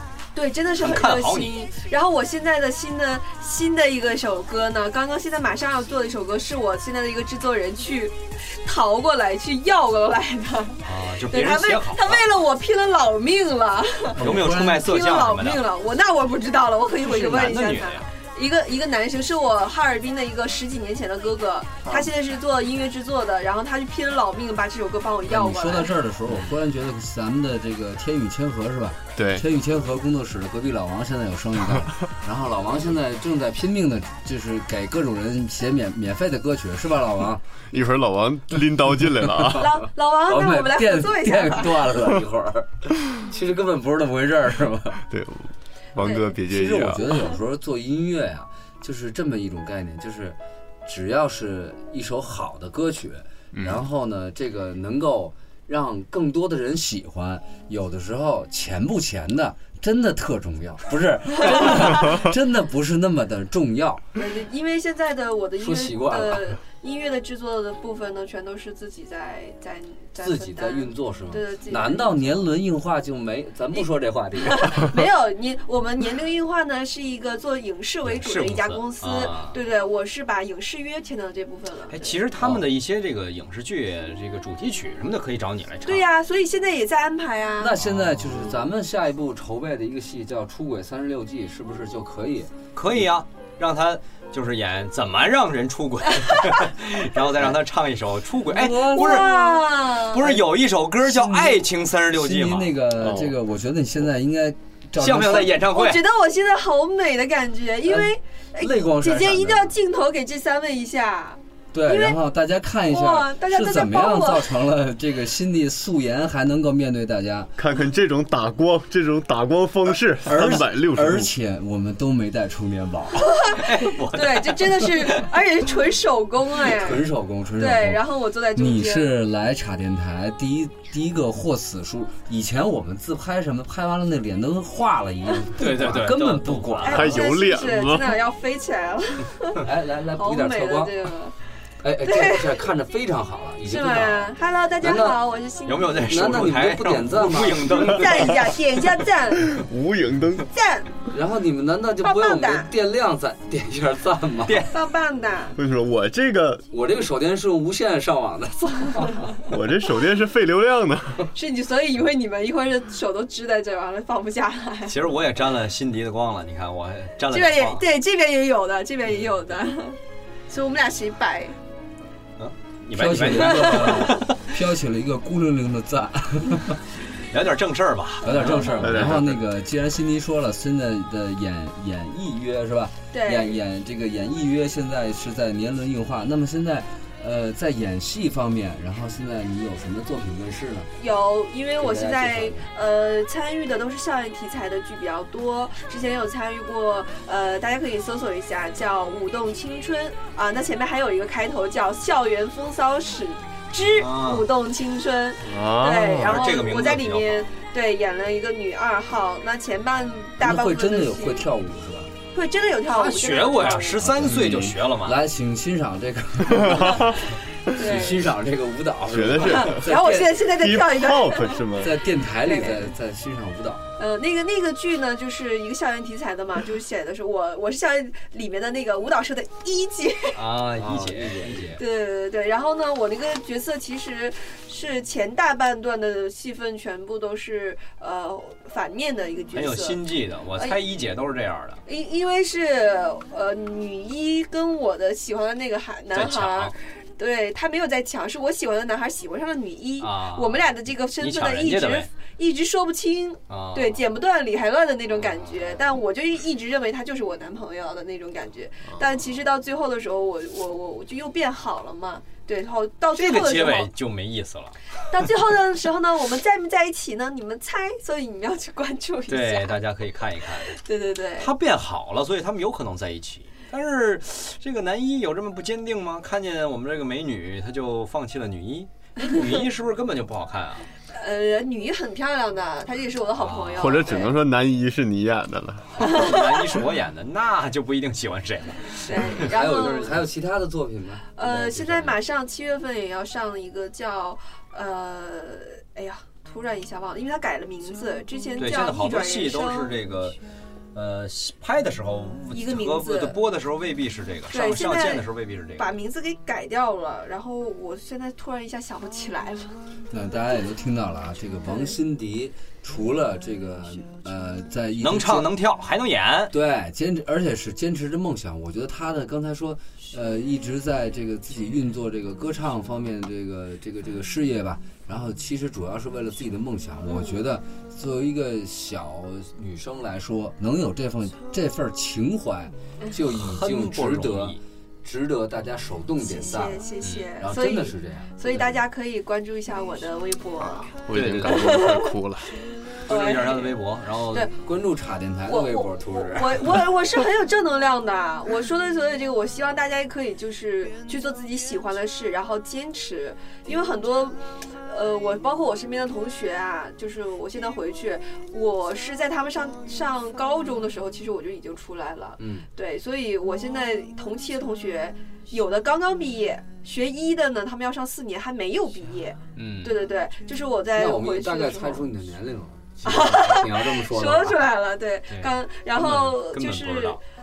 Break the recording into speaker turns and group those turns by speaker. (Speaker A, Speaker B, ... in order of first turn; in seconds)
Speaker A: 0.3-25.9, 39.6-41.8, 46.0-46.3, 64.2-72.1, 74.5-82.2, 85.8-87.8, 98.9-100.4, 105.4-112.2, 112.9-114.5, 123.4-127.0, 127.6-129.1, 136.8-139.6, 140.2-141.3, 142.0-142.6, 143.7-146.1, 147.9-149.5, 150.5-150.9, 152.0-152.7, 154.7-155.6, 161.3-165.1, 167.3-171.6, 178.2-178.9, 183.1-183.6, 191.0-211.5, 212.3-214.0, 217.8-218.3, 219.4-221.7, 222.4-222.8, 224.0-230.3, 231.8-240.0, 241.8-263.9, 265.1-269.8, 270.7-271.5, 281.1-284.3, 286.0-286.8, 289.0-290.1, 291.3-299.9, 302.5-303.4, 304.5-305.2, 305.8-309.7, 311.6-311.9, 327.1-327.4, 336.2-342.1, 343.1-343.7, 345.5-372.1, 373.0-377.2
Speaker B: 0.8-1.6, 10.8-12.2, 14.2-15.6, 17.0-18.1, 78.0-79.5, 81.9-86.0, 87.8-88.4, 92.7-102.7, 105.0-106.0, 123.6-125.3, 135.6-137.0, 145.7-148.4, 154.4-154.7, 164.9-167.8, 172.4-174.4, 177.3-179.1, 203.8-204.5, 206.2-207.4, 212.9-215.2, 230.3-231.8, 239.5-241.8, 246.1-246.7, 250.0-250.6, 251.2-252.1, 253.5-254.0, 255.1-255.8, 263.1-264.8, 269.3-270.8, 271.4-280.9, 283.4-284.1, 286.0-290.1, 298.6-300.4, 300.9-305.9, 315.0-316.5, 333.3-334.6, 341.2-341.5, 343.1-344.5, 369.5-370.0, 375.3-377.2
Speaker C: 14.2-14.9, 25.3-37.4, 39.0-45.0, 46.5-64.0, 65.6-66.6, 70.2-74.9, 82.4-82.7, 87.6-93.0, 98.5-99.3, 101.0-105.6, 107.8-109.8, 111.7-117.5, 120.2-123.3, 126.6-137.2, 139.6-140.9, 141.8-145.2, 146.0-148.3, 151.1-154.7, 156.7-159.3, 172.9-176.8, 178.2-190.9, 191.8-192.7, 210.4-212.1, 214.2-217.2, 217.7-220.4, 221.8-223.8, 230.8-231.8, 289.2-292.2, 310.1-315.5, 316.5-336.9, 337.4-338.8, 341.1-341.4, 344.6-346.8, 362.4-362.7, 370.9-374.6
Speaker D: 29.1-29.4, 37.7-39.7, 45.1-47.0, 53.5-53.8, 103.0-103.3, 117.6-121.3, 136.9-138.1, 149.5-150.5, 155.6-156.7, 159.5-161.3, 178.8-179.4, 205.4-206.6, 214.2-214.7, 216.5-217.2, 219.1-219.8, 220.4-221.9, 283.8-286.1, 340.6-342.6